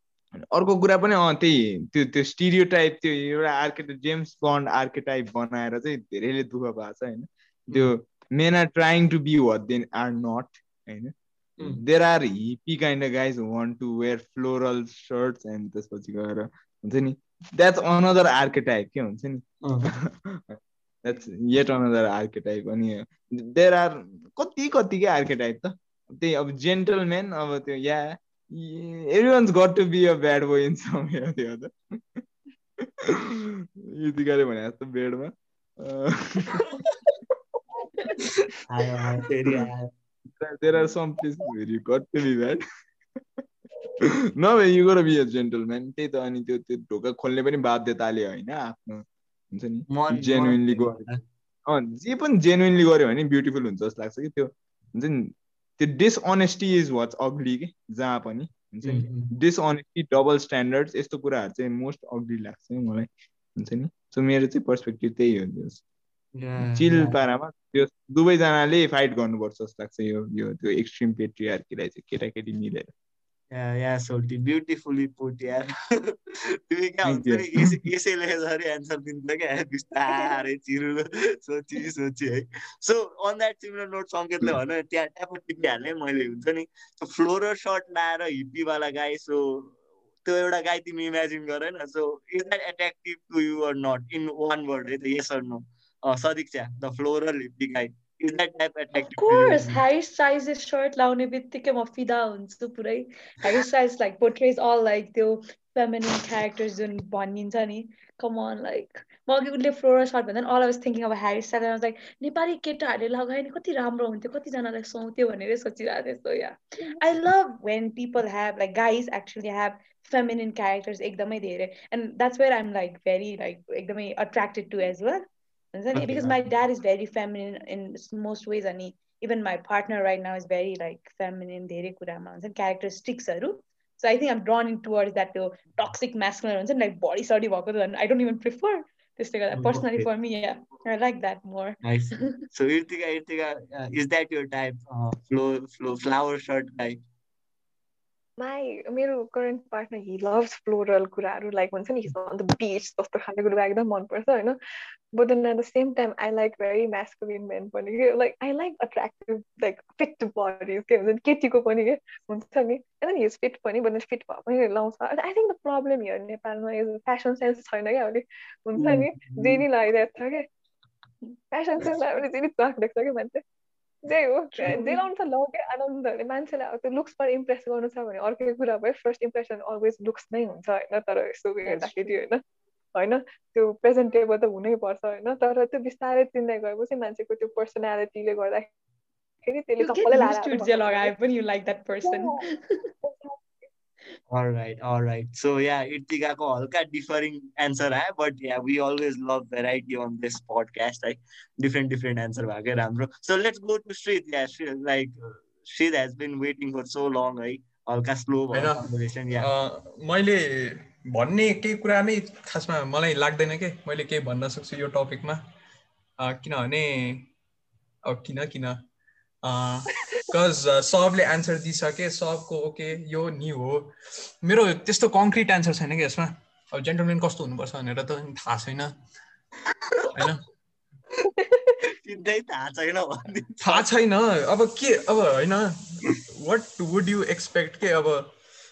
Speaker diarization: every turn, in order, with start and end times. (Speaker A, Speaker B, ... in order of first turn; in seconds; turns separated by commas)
Speaker A: 0.4-32.2, Speaker B: 19.6-19.9, Speaker A: 33.5-36.6, Speaker B: 38.7-39.9, Speaker A: 40.4-42.6, Speaker A: 44.4-51.1, Speaker B: 49.9-51.2, Speaker A: 51.7-65.8, Speaker B: 58.9-59.3, Speaker B: 66.4-67.2, Speaker A: 66.6-72.9, Speaker B: 73.5-76.2, Speaker B: 76.7-99.8, Speaker A: 77.1-77.8, Speaker C: 99.0-142.4, Speaker B: 126.0-126.3, Speaker B: 139.6-140.1, Speaker B: 141.8-147.0, Speaker D: 148.4-154.6, Speaker D: 155.1-170.5, Speaker B: 168.8-169.6, Speaker D: 171.5-173.4, Speaker D: 174.1-182.4, Speaker C: 174.6-175.1, Speaker C: 181.7-182.3, Speaker D: 183.0-188.7, Speaker D: 189.5-191.1, Speaker C: 189.8-192.6, Speaker D: 192.0-192.4, Speaker D: 193.0-193.6, Speaker B: 194.3-209.5, Speaker E: 208.5-215.4, Speaker E: 216.2-217.3, Speaker E: 218.1-218.8, Speaker E: 219.4-223.9, Speaker E: 224.4-228.9, Speaker B: 229.9-230.2, Speaker E: 230.1-230.4, Speaker D: 231.2-231.8, Speaker B: 231.9-233.8, Speaker E: 233.6-238.3